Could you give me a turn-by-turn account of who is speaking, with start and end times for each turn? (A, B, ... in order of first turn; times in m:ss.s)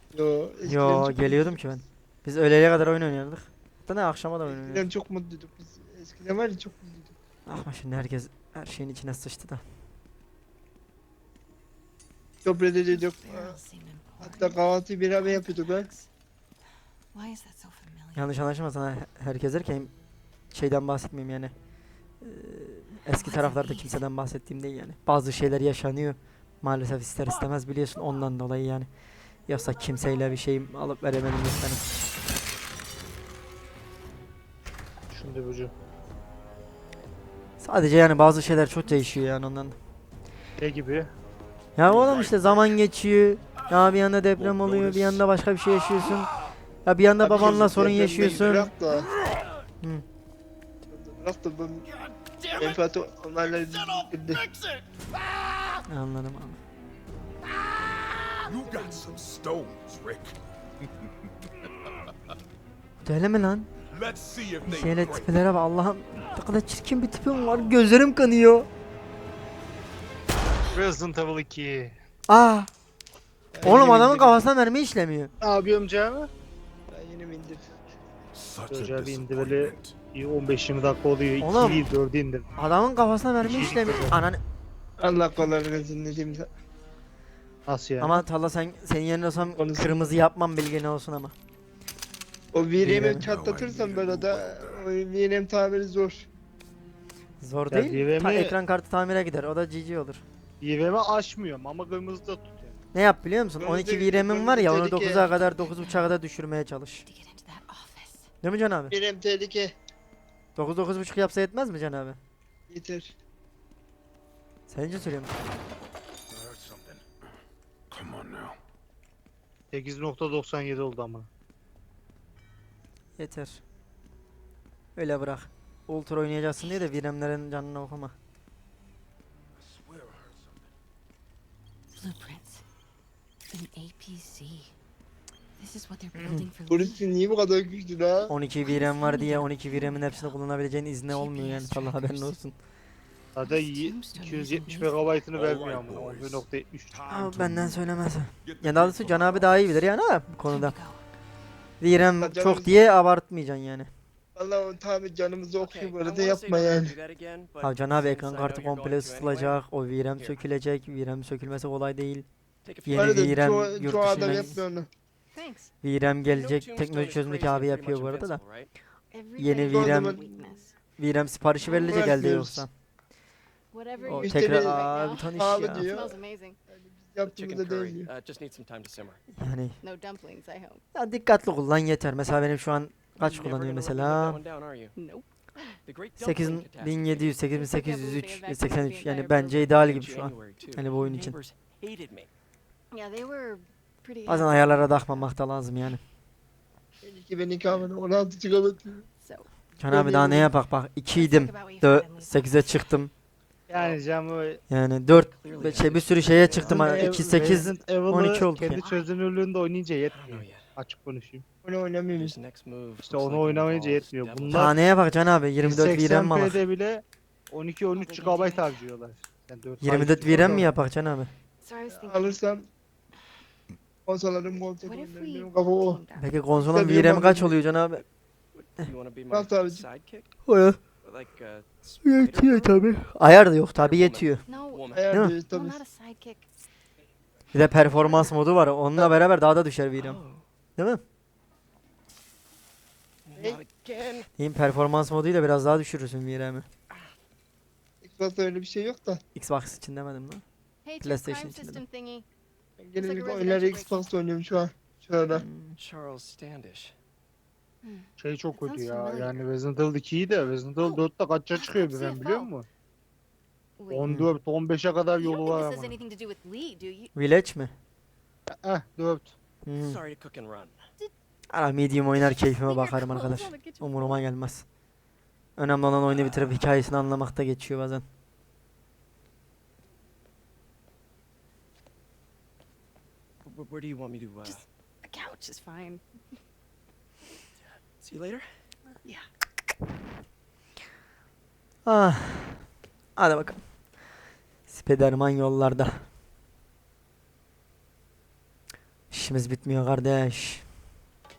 0:00.1-0:01.8 A
0:00.6-0:04.8 B
0:04.4-0:07.2 A
0:07.5-0:09.6 B
0:12.4-0:13.6 A
0:12.9-0:14.6 C
0:14.2-0:15.9 A
0:15.2-0:16.1 C
0:17.1-0:18.3 C
0:18.1-0:19.9 B
0:20.5-0:21.5 B
0:22.2-0:28.9 B
0:23.0-0:24.0 C
0:29.4-0:31.8 B
0:35.1-0:35.7 D
0:37.6-0:39.8 B
0:40.6-0:41.1 D
0:41.8-0:46.3 B
0:41.8-0:42.6 E
0:43.7-0:45.2 E
0:46.8-0:48.7 B
0:47.2-0:49.1 A
0:47.3-0:48.6 D
0:50.9-0:51.9 A
0:52.0-0:52.8 E
0:52.6-0:54.4 A
0:53.6-0:54.8 E
0:55.9-0:56.6 B
0:58.4-1:00.4 E
0:58.6-0:59.2 A
1:01.6-1:01.9 E
1:03.0-1:03.7 B
1:03.9-1:05.4 E
1:04.6-1:08.7 B
1:10.7-1:11.9 D
1:12.3-1:12.7 B
1:13.5-1:14.4 A
1:13.6-1:15.3 B
1:15.4-1:16.3 D
1:16.9-1:17.8 A
1:18.3-1:20.0 E
1:18.7-1:22.5 D
1:21.4-1:21.8 B
1:22.6-1:24.4 B
1:23.4-1:24.2 D
1:25.0-1:26.5 A
1:27.7-1:28.2 D
1:28.0-1:31.3 B
1:29.5-1:30.1 A
1:32.5-1:36.3 A
1:32.8-1:33.3 B
1:33.1-1:34.8 E
1:37.4-1:40.2 B
1:37.7-1:38.6 D
1:40.6-1:42.8 D
1:42.9-1:47.0 B
1:43.6-1:45.4 A
1:45.4-1:46.1 C
1:47.0-1:48.3 C
1:48.4-1:48.9 B
1:48.9-1:49.7 A
1:50.6-1:52.2 B
1:52.7-1:53.1 A
1:54.7-1:55.3 B
1:56.3-1:57.0 E
1:57.9-1:58.6 E
1:59.7-2:01.3 D
2:03.2-2:03.6 B
2:05.0-2:08.1 B
2:06.6-2:06.9 C
2:09.5-2:10.7 E
2:11.9-2:12.6 C
2:13.5-2:14.7 C
2:15.6-2:17.0 C
2:16.1-2:16.5 B
2:16.7-2:18.3 A
2:18.3-2:22.6 B
2:18.6-2:20.4 C
2:21.1-2:22.3 C
2:23.3-2:27.0 D
2:23.4-2:25.0 C
2:25.3-2:29.9 E
2:27.1-2:30.8 B
2:30.4-2:31.0 C
2:31.8-2:33.9 B
2:32.2-2:32.8 A
2:34.3-2:36.9 A
2:35.6-2:39.6 F
2:37.6-2:42.2 B
2:42.6-2:43.3 F
2:42.8-2:44.6 B
2:42.9-2:44.9 A
2:45.3-2:45.7 C
2:45.8-2:48.4 B
2:46.3-2:48.7 F
2:49.1-2:50.7 C
2:49.4-2:50.2 B
2:49.6-2:50.4 A
2:51.0-2:52.7 B
2:51.6-2:52.1 C
2:51.8-2:52.7 A
2:53.7-2:56.6 C
2:54.0-2:55.9 B
2:54.1-2:58.1 A
2:57.2-2:59.2 F
2:59.3-2:59.8 B
2:59.8-3:00.8 C
3:00.9-3:04.4 B
3:03.2-3:04.9 F
3:05.0-3:05.8 C
3:05.8-3:07.2 F
3:06.2-3:11.4 B
3:07.5-3:09.7 C
3:09.7-3:12.3 F
3:11.0-3:11.3 C
3:12.9-3:15.3 C
3:14.2-3:16.0 B
3:17.0-3:19.1 A
3:19.2-3:19.5 C
3:19.8-3:23.1 B
3:19.9-3:20.5 A
3:21.1-3:22.8 C
3:23.7-3:24.6 D
3:23.7-3:24.0 F
3:24.7-3:28.8 B
3:25.4-3:26.8 F
3:26.6-3:31.4 D
3:26.7-3:27.4 A
3:28.6-3:29.1 C
3:30.1-3:30.7 F
3:31.6-3:32.4 A
3:32.1-3:34.7 F
3:33.0-3:34.7 D
3:34.5-3:36.6 B
3:35.6-3:40.7 D
3:38.0-3:38.8 C
3:39.8-3:41.3 B
3:41.6-3:42.4 C
3:41.9-3:42.7 A
3:44.0-3:46.0 A
3:44.8-3:46.4 C
3:46.2-3:48.0 B
3:46.6-3:47.6 A
3:48.5-3:50.3 F
3:49.3-3:49.8 A
3:50.5-3:50.8 B
3:51.0-3:52.8 F
3:52.0-3:54.4 B
3:53.8-3:55.0 F
3:54.5-3:56.4 C
3:54.9-3:55.8 A
3:57.5-4:00.2 B
4:00.0-4:00.4 F
4:00.8-4:01.0 B
4:03.2-4:04.3 F
4:03.4-4:03.6 A
4:04.4-4:06.7 B
4:08.0-4:09.2 A
4:09.4-4:10.4 B
4:10.8-4:12.2 C
4:11.0-4:11.8 B
4:12.8-4:15.4 A
4:13.0-4:14.1 C
4:15.3-4:15.8 B
4:15.8-4:16.9 F
4:17.8-4:19.4 C
4:18.2-4:22.6 D
4:20.8-4:22.5 C
4:23.8-4:24.1 C
4:23.9-4:26.0 D
4:24.0-4:24.3 B
4:25.2-4:27.1 C
4:27.1-4:27.7 B
4:28.5-4:29.3 D
4:29.6-4:30.0 B
4:29.8-4:30.8 F
4:31.5-4:34.6 B
4:32.2-4:34.2 C
4:35.6-4:38.0 B
4:43.4-4:44.6 F
4:44.4-4:46.0 C
4:48.0-4:48.4 F
4:51.8-4:52.6 B
4:53.2-4:53.6 B
4:54.7-4:56.0 B
4:59.1-5:00.6 B